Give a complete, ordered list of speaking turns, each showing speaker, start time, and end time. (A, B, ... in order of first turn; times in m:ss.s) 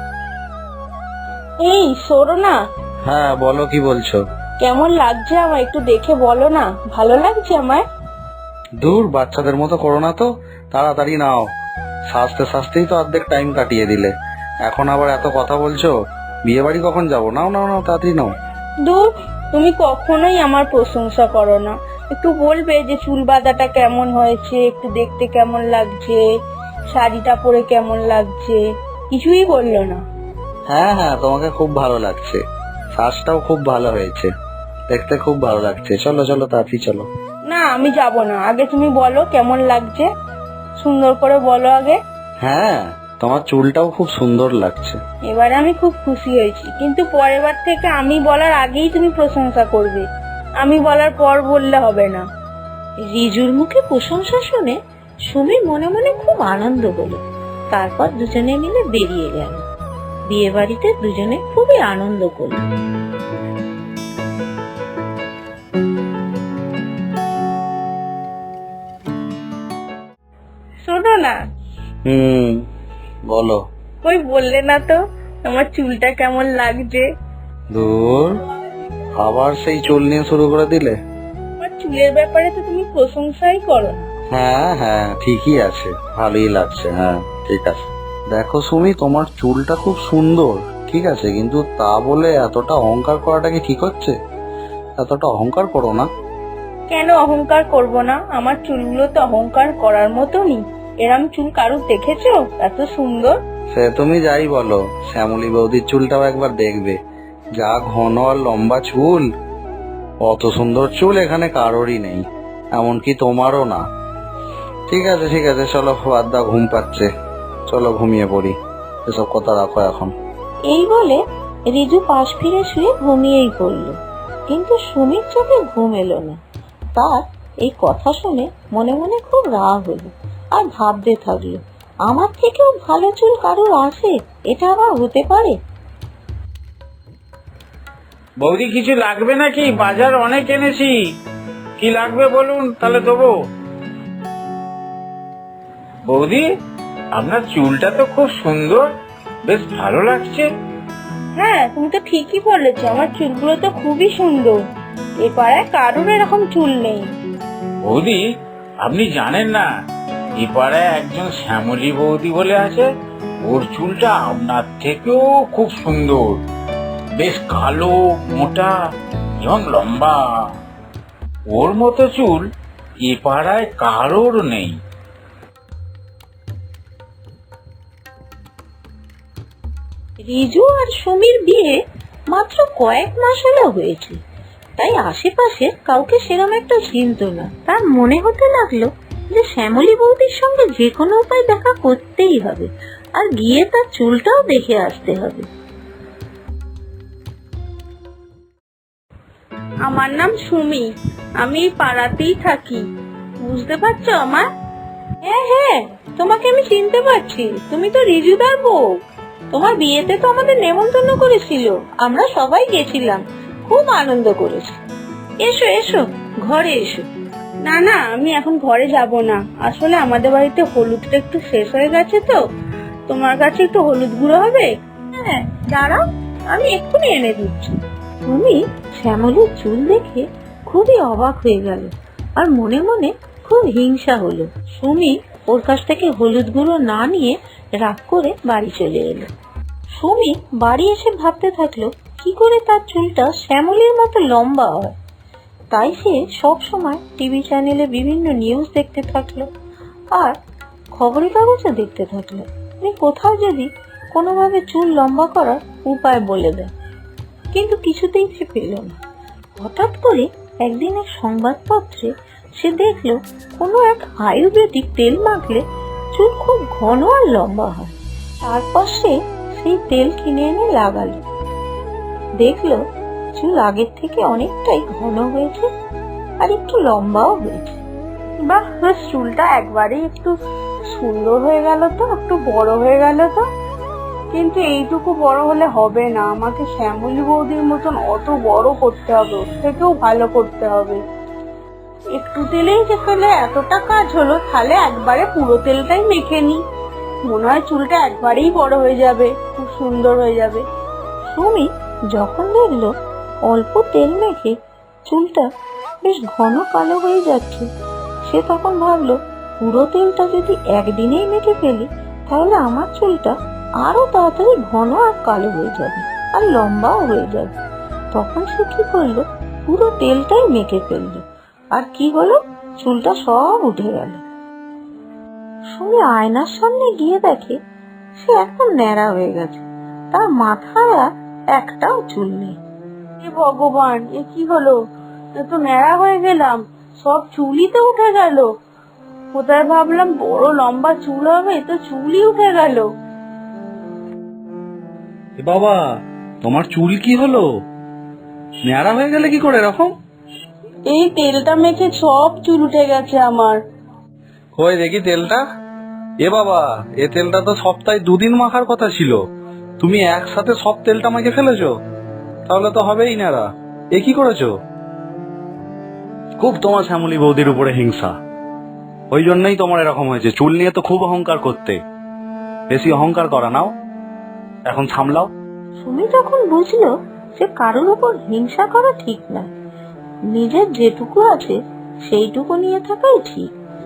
0:01.6-0:02.5 A
0:03.1-0:04.2 B
0:04.6-0:07.8 A
0:08.8-0:11.4 B
0:12.1-0:14.1 B
0:14.6-0:15.9 B
0:16.4-0:18.3 B
0:18.8-0:26.2 A
0:26.9-0:28.6 A
0:29.1-0:30.0 A
0:30.7-0:32.4 B
0:33.0-0:34.3 B
0:34.9-0:37.1 B
0:37.5-0:40.1 A
0:40.8-0:42.0 A
0:42.4-0:45.0 B
0:45.2-0:50.0 A
0:50.6-0:52.2 A
0:53.0-0:59.6 C
1:00.3-1:02.6 C
1:10.8-1:11.4 A
1:12.1-1:12.6 B
1:13.3-1:13.6 B
1:14.0-1:17.0 A
1:17.7-1:18.4 B
1:19.2-1:21.0 B
1:21.6-1:24.0 A
1:24.3-1:34.1 B
1:35.0-1:36.1 B
1:36.9-1:43.4 A
1:43.7-1:47.0 B
1:47.6-1:49.3 B
1:50.2-1:53.8 B
1:54.9-1:57.1 B
1:57.7-1:58.6 B
1:59.1-2:00.1 B
2:00.7-2:04.0 C
2:04.5-2:06.4 C
2:06.9-2:15.6 C
2:18.4-2:21.0 D
2:21.8-2:23.3 D
2:26.0-2:26.4 D
2:27.1-2:28.8 D
2:29.4-2:30.5 D
2:31.4-2:34.5 A
2:35.2-2:37.0 A
2:37.8-2:38.2 D
2:38.8-2:39.6 D
2:40.4-2:42.9 D
2:43.4-2:46.4 D
2:47.2-2:48.7 D
2:49.4-2:50.2 D
2:51.5-2:52.4 D
2:53.0-2:54.8 D
3:00.2-3:04.2 C
3:04.8-3:15.5 C
3:19.8-3:22.8 A
3:23.4-3:24.5 A
3:25.2-3:28.8 C
3:29.5-3:34.8 C
3:35.4-3:37.1 C
3:37.6-3:42.4 A
3:43.1-3:47.7 A
3:48.2-3:59.3 C
4:00.0-4:04.9 C
4:05.7-4:09.5 C
4:10.1-4:10.4 C
4:11.0-4:16.7 C
4:17.5-4:19.0 C
4:19.6-4:25.6 C
4:26.1-4:31.2 C
4:32.4-4:32.8 C
4:33.4-4:35.7 C
4:36.4-4:37.8 C
4:38.4-4:40.3 A
4:40.9-4:43.4 A
4:44.3-4:51.0 A
4:52.2-4:56.6 A
4:57.2-5:00.6 A
5:01.3-5:02.9 C
5:03.4-5:05.5 C
5:06.0-5:07.7 C
5:08.2-5:17.5 C
5:18.1-5:24.2 C
5:25.7-5:27.6 C
5:28.2-5:32.6 C
5:33.2-5:34.7 A
5:35.3-5:38.4 A
5:39.3-5:42.8 A
5:45.4-5:45.8 B
5:46.4-5:47.4 B
5:48.7-5:49.9 B
5:50.9-5:53.6 A
5:54.6-5:55.4 B
5:56.2-5:59.2 B
5:59.8-6:01.7 B
6:02.5-6:04.5 B
6:06.4-6:08.1 B
6:09.1-6:11.8 B
6:12.7-6:13.7 B
6:14.7-6:15.3 B
6:15.8-6:19.5 C
6:20.3-6:23.5 C